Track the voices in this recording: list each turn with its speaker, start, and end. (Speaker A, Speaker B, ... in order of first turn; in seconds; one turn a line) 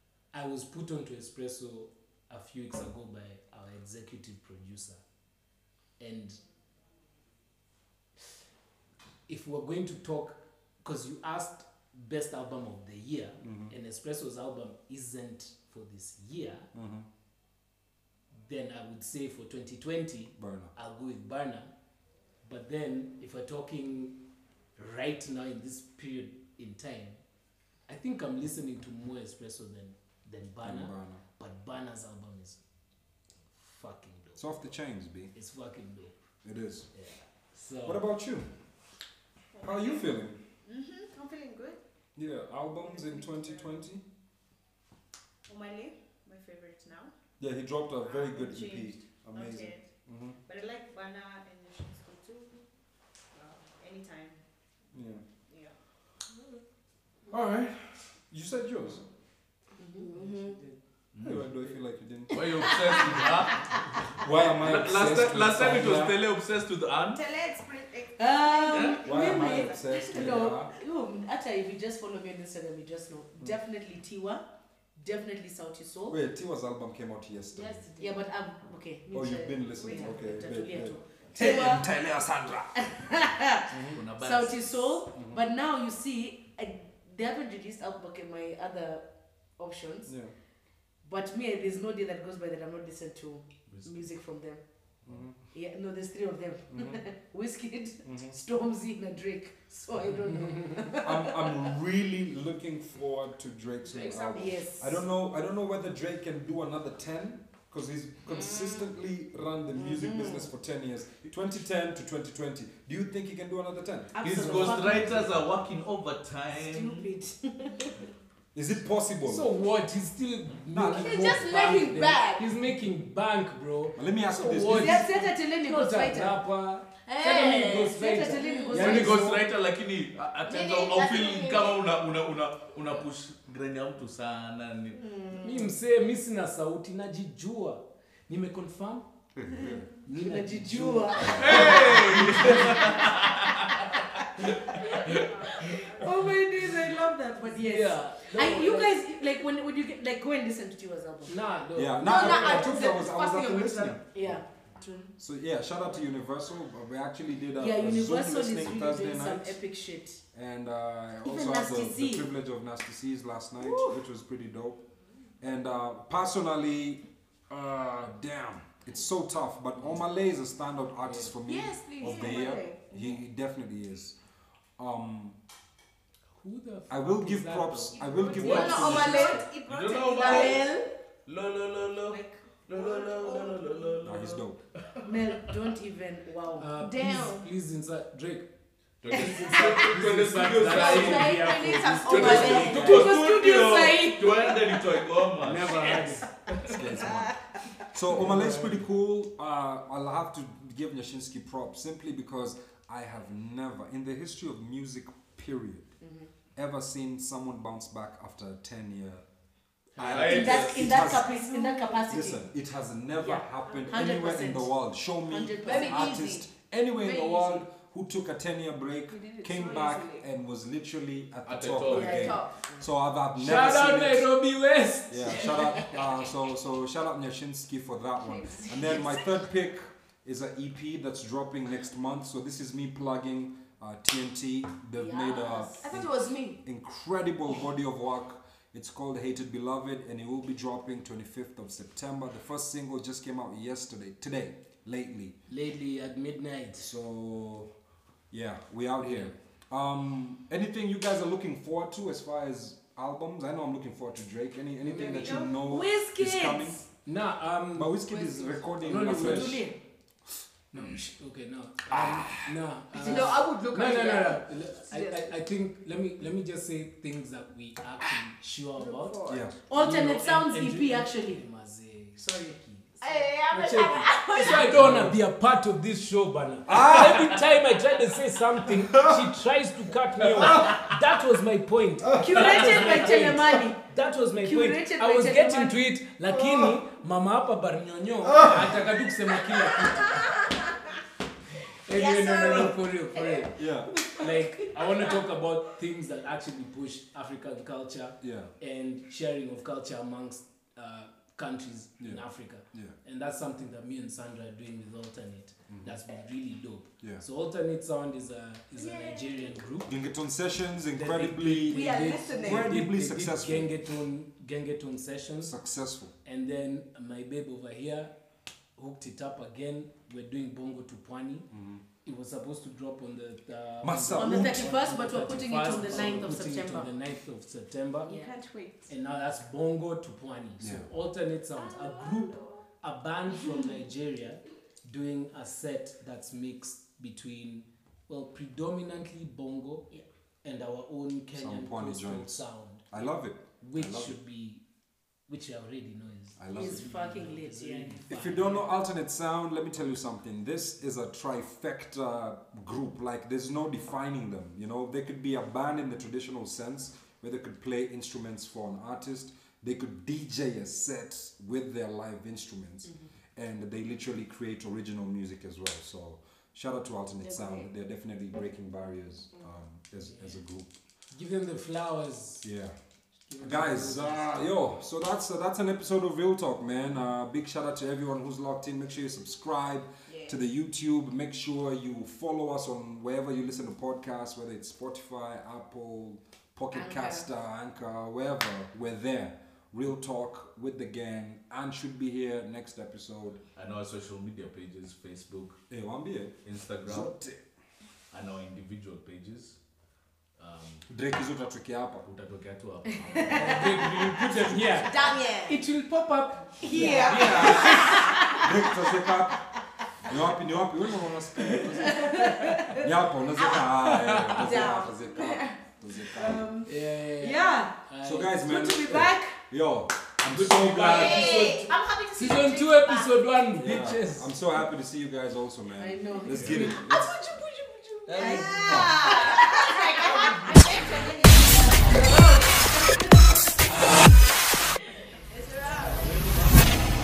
Speaker A: 0.3-5.0
Speaker A: 6.0-6.4
Speaker A: 9.3-16.7
Speaker B: 13.4-13.7
Speaker B: 16.7-17.1
Speaker A: 18.4-21.7
Speaker B: 20.4-20.7
Speaker A: 22.4-24.2
Speaker A: 24.8-27.2
Speaker A: 27.9-32.6
Speaker B: 30.6-31.2
Speaker A: 33.5-34.5
Speaker B: 34.4-35.3
Speaker A: 35.3-36.1
Speaker B: 36.4-36.9
Speaker A: 36.9-38.0
Speaker B: 37.8-38.5
Speaker C: 39.5-41.8
Speaker B: 39.6-40.4
Speaker B: 42.2-44.0
Speaker C: 42.8-43.8
Speaker C: 45.5-47.1
Speaker B: 47.4-50.4
Speaker C: 48.0-52.6
Speaker C: 53.3-54.4
Speaker B: 54.9-55.2
Speaker C: 55.5-55.7
Speaker B: 57.3-59.0
Speaker D: 59.8-60.1
Speaker E: 59.9-60.6
Speaker F: 61.1-61.4
Speaker B: 61.2-62.7
Speaker F: 62.3-67.2
Speaker D: 62.4-63.3
Speaker B: 64.2-66.2
Speaker C: 67.1-70.4
Speaker D: 68.2-74.4
Speaker F: 68.7-69.0
Speaker B: 69.0-70.7
Speaker D: 75.0-76.2
Speaker B: 76.1-77.9
Speaker D: 78.0-81.9
Speaker B: 79.1-83.0
Speaker E: 81.4-81.8
Speaker D: 82.8-89.0
Speaker B: 83.7-84.0
Speaker F: 83.9-85.0
Speaker B: 85.2-85.4
Speaker D: 89.6-90.1
Speaker B: 90.1-90.3
Speaker D: 91.0-94.6
Speaker F: 93.7-94.1
Speaker B: 95.0-95.4
Speaker D: 95.5-101.7
Speaker B: 96.7-97.0
Speaker B: 98.0-98.4
Speaker B: 101.0-114.2
Speaker E: 103.8-104.5
Speaker D: 104.3-105.0
Speaker E: 108.3-108.8
Speaker D: 109.8-110.4
Speaker D: 114.1-115.5
Speaker F: 114.2-117.1
Speaker D: 116.5-118.0
Speaker B: 118.5-119.5
Speaker A: 119.2-129.4
Speaker B: 120.7-121.5
Speaker E: 120.9-122.5
Speaker B: 124.0-125.1
Speaker D: 124.6-126.4
Speaker E: 127.0-129.0
Speaker D: 127.4-129.4
Speaker F: 128.8-135.2
Speaker E: 130.5-131.8
Speaker E: 135.0-135.7
Speaker A: 135.4-139.1
Speaker B: 139.4-139.8
Speaker A: 140.0-142.8
Speaker D: 140.2-142.9
Speaker F: 141.3-145.9
Speaker B: 142.4-142.7
Speaker D: 144.7-151.3
Speaker C: 145.0-145.9
Speaker A: 147.5-149.0
Speaker A: 151.3-152.9
Speaker B: 151.7-154.4
Speaker E: 152.0-154.0
Speaker D: 154.1-155.1
Speaker B: 155.2-159.6
Speaker D: 157.6-160.2
Speaker B: 160.3-164.8
Speaker D: 161.2-162.3
Speaker E: 163.6-164.0
Speaker B: 165.4-174.2
Speaker A: 171.0-171.3
Speaker E: 171.4-173.1
Speaker F: 172.0-172.4
Speaker B: 174.8-175.4
Speaker A: 176.4-179.5
Speaker B: 176.9-179.3
Speaker C: 177.9-178.8
Speaker E: 178.3-180.9
Speaker F: 178.9-180.7
Speaker F: 181.2-185.5
Speaker C: 182.0-184.2
Speaker B: 184.0-184.6
Speaker D: 185.0-186.7
Speaker A: 186.6-188.5
Speaker E: 186.7-187.5
Speaker F: 189.0-191.5
Speaker A: 189.1-193.2
Speaker D: 189.1-189.9
Speaker E: 190.5-193.1
Speaker D: 192.1-194.8
Speaker F: 192.1-196.8
Speaker A: 195.4-196.5
Speaker B: 196.7-197.3
Speaker B: 197.9-205.9
Speaker A: 198.1-198.8
Speaker D: 206.0-206.3
Speaker B: 206.6-209.2
Speaker A: 209.9-210.6
Speaker B: 210.0-211.4
Speaker F: 210.0-211.2
Speaker D: 210.2-212.4
Speaker E: 211.2-212.1
Speaker B: 212.1-224.3
Speaker D: 213.1-214.7
Speaker D: 215.2-216.2
Speaker E: 215.6-216.5
Speaker E: 217.0-217.6
Speaker E: 219.1-220.2
Speaker F: 221.4-222.3
Speaker E: 221.9-222.8
Speaker D: 222.0-222.8
Speaker A: 223.3-225.8
Speaker B: 225.1-245.4
Speaker E: 228.2-229.3
Speaker D: 235.0-235.9
Speaker E: 235.8-236.6
Speaker A: 245.5-246.9
Speaker B: 246.8-247.7
Speaker B: 248.3-256.8
Speaker A: 254.9-255.4
Speaker E: 254.9-255.5
Speaker D: 255.0-256.8
Speaker A: 257.0-258.0
Speaker B: 257.7-259.6
Speaker A: 258.8-259.7
Speaker D: 258.9-259.8
Speaker A: 260.7-290.4
Speaker B: 261.9-262.2
Speaker D: 263.0-263.3
Speaker E: 263.0-265.4
Speaker E: 268.8-269.5
Speaker B: 269.3-269.5
Speaker D: 269.7-271.4
Speaker D: 272.1-272.6
Speaker E: 273.0-274.8
Speaker B: 274.7-275.2
Speaker B: 276.7-277.4
Speaker B: 278.7-279.3
Speaker B: 280.2-281.0
Speaker B: 282.0-283.6
Speaker D: 282.2-283.8
Speaker D: 284.4-285.8
Speaker B: 286.3-286.8
Speaker B: 288.2-288.8
Speaker E: 289.7-290.8
Speaker A: 291.8-309.9
Speaker E: 291.9-295.2
Speaker B: 293.6-293.9
Speaker B: 298.2-298.5
Speaker B: 302.0-302.9
Speaker E: 308.8-309.5
Speaker B: 309.9-313.7
Speaker A: 310.9-315.5
Speaker E: 311.6-312.7
Speaker B: 315.4-316.1
Speaker A: 316.2-318.1
Speaker A: 318.8-321.5
Speaker B: 321.5-321.8
Speaker A: 322.0-328.1
Speaker B: 323.8-324.8
Speaker D: 324.1-326.9
Speaker E: 328.0-328.9
Speaker A: 328.9-339.9
Speaker B: 330.6-330.9
Speaker E: 331.6-332.6
Speaker A: 340.4-344.6
Speaker B: 341.4-344.1
Speaker A: 345.3-348.7
Speaker B: 346.4-346.9
Speaker D: 346.5-348.1
Speaker B: 348.1-370.7
Speaker A: 371.1-372.5
Speaker B: 372.4-372.7
Speaker A: 373.2-374.4
Speaker B: 373.4-393.4
Speaker E: 380.1-380.4
Speaker E: 386.7-387.2
Speaker F: 393.5-395.6
Speaker B: 395.7-397.4
Speaker F: 396.4-397.1
Speaker F: 398.1-399.6
Speaker F: 400.4-400.9
Speaker B: 400.9-402.1
Speaker F: 402.0-405.1
Speaker D: 403.0-403.7
Speaker B: 403.2-405.0
Speaker A: 403.3-408.1
Speaker E: 404.9-405.6
Speaker E: 406.6-408.1
Speaker D: 406.7-408.6
Speaker B: 408.4-409.4
Speaker B: 410.0-416.4
Speaker D: 411.5-412.9
Speaker E: 413.4-415.6
Speaker F: 413.9-414.4
Speaker D: 416.1-417.8
Speaker A: 416.6-418.7
Speaker B: 418.0-421.4
Speaker D: 418.4-419.4
Speaker A: 420.3-424.3
Speaker E: 420.9-421.9
Speaker D: 421.2-421.6
Speaker C: 421.3-423.0
Speaker B: 423.6-427.1
Speaker D: 425.8-427.1
Speaker F: 426.3-426.6
Speaker E: 426.9-432.4
Speaker A: 428.1-429.2
Speaker D: 428.2-430.6
Speaker B: 428.6-429.0
Speaker C: 429.3-431.5
Speaker D: 431.8-433.1
Speaker E: 435.2-436.3
Speaker A: 436.0-436.5